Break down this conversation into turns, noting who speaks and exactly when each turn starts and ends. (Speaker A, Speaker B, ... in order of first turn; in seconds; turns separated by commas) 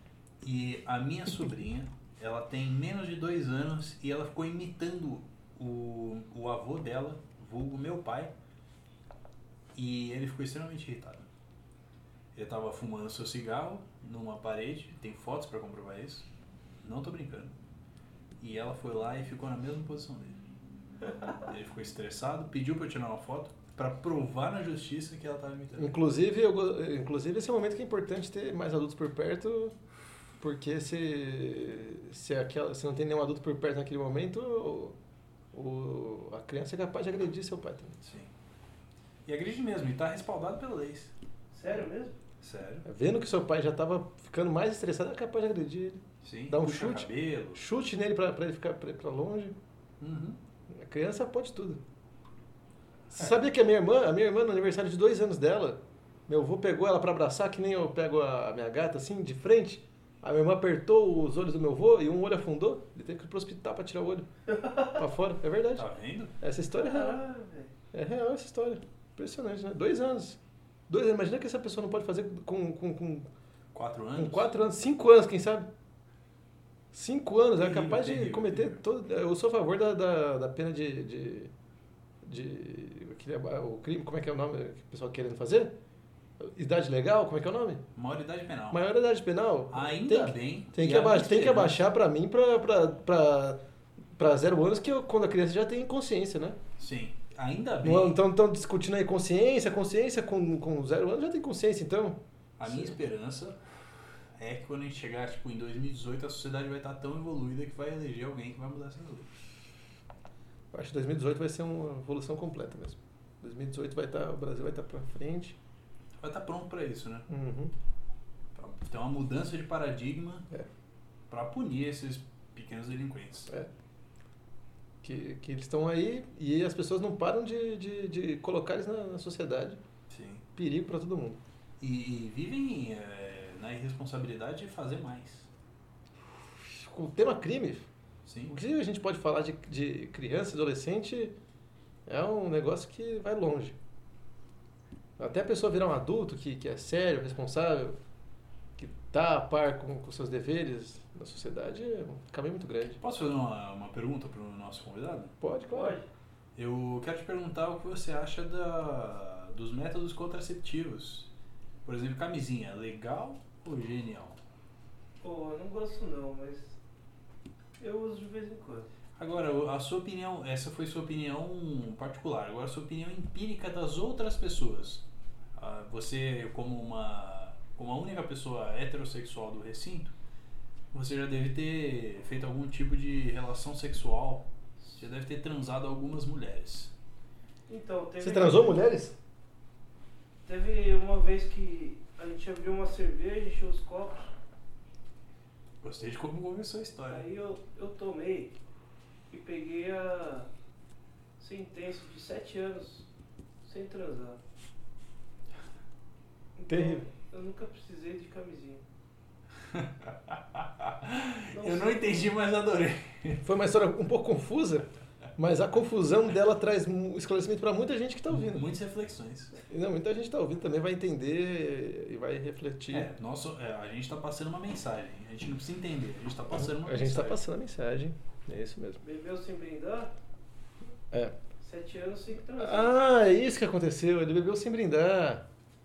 Speaker A: 0.4-8.3, Speaker A: 9.7-11.3, Speaker A: 12.3-16.3, Speaker A: 16.8-17.5, Speaker A: 18.4-20.4, Speaker A: 21.4-26.0, Speaker B: 25.8-29.7, Speaker B: 30.4-35.0, Speaker B: 35.5-38.0, Speaker A: 38.0-38.3, Speaker A: 39.2-41.1, Speaker C: 41.5-42.2, Speaker A: 42.4-42.9, Speaker B: 42.8-49.5, Speaker A: 46.2-47.6, Speaker A: 50.0-50.4, Speaker B: 50.7-51.8, Speaker B: 53.1-64.3, Speaker C: 64.5-65.0, Speaker B: 64.8-65.9, Speaker A: 65.8-66.3, Speaker B: 66.4-67.2, Speaker C: 66.7-67.7, Speaker B: 67.9-73.3, Speaker A: 73.7-74.5, Speaker B: 74.2-75.7, Speaker B: 76.9-81.5, Speaker A: 77.6-78.8, Speaker B: 82.2-85.7, Speaker B: 86.4-87.8, Speaker A: 87.9-88.8, Speaker B: 88.7-93.6, Speaker A: 89.7-91.8, Speaker B: 94.2-96.6, Speaker A: 96.8-98.2, Speaker B: 97.8-103.0, Speaker A: 102.6-103.6, Speaker A: 104.4-109.3, Speaker B: 110.7-115.5, Speaker A: 116.2-117.3, Speaker B: 117.3-117.7, Speaker A: 118.5-120.5, Speaker A: 121.3-123.5, Speaker B: 125.0-129.8, Speaker A: 130.1-130.4, Speaker B: 130.5-131.4, Speaker A: 131.8-135.5, Speaker B: 136.7-137.9, Speaker A: 138.2-138.5, Speaker B: 138.5-141.3, Speaker B: 142.1-143.8, Speaker B: 145.2-148.0, Speaker B: 148.8-153.0, Speaker A: 153.0-155.3, Speaker B: 155.4-156.0, Speaker C: 155.7-156.1, Speaker A: 156.6-161.3, Speaker A: 161.8-164.4, Speaker C: 165.2-166.8, Speaker C: 167.8-168.9, Speaker A: 169.2-180.1, Speaker A: 180.9-186.9, Speaker C: 187.7-188.8, Speaker B: 188.2-189.2, Speaker C: 190.4-194.3, Speaker A: 195.8-197.2, Speaker C: 197.1-198.5, Speaker C: 199.3-200.5, Speaker C: 201.4-203.1, Speaker C: 203.6-204.4, Speaker C: 206.6-208.8, Speaker B: 206.7-207.0, Speaker A: 209.7-213.4, Speaker C: 211.5-212.3, Speaker B: 213.4-218.7, Speaker A: 218.3-219.5, Speaker B: 219.7-223.1, Speaker A: 222.9-227.4, Speaker B: 226.5-229.0, Speaker C: 229.0-230.1, Speaker C: 231.6-232.9, Speaker B: 232.6-235.4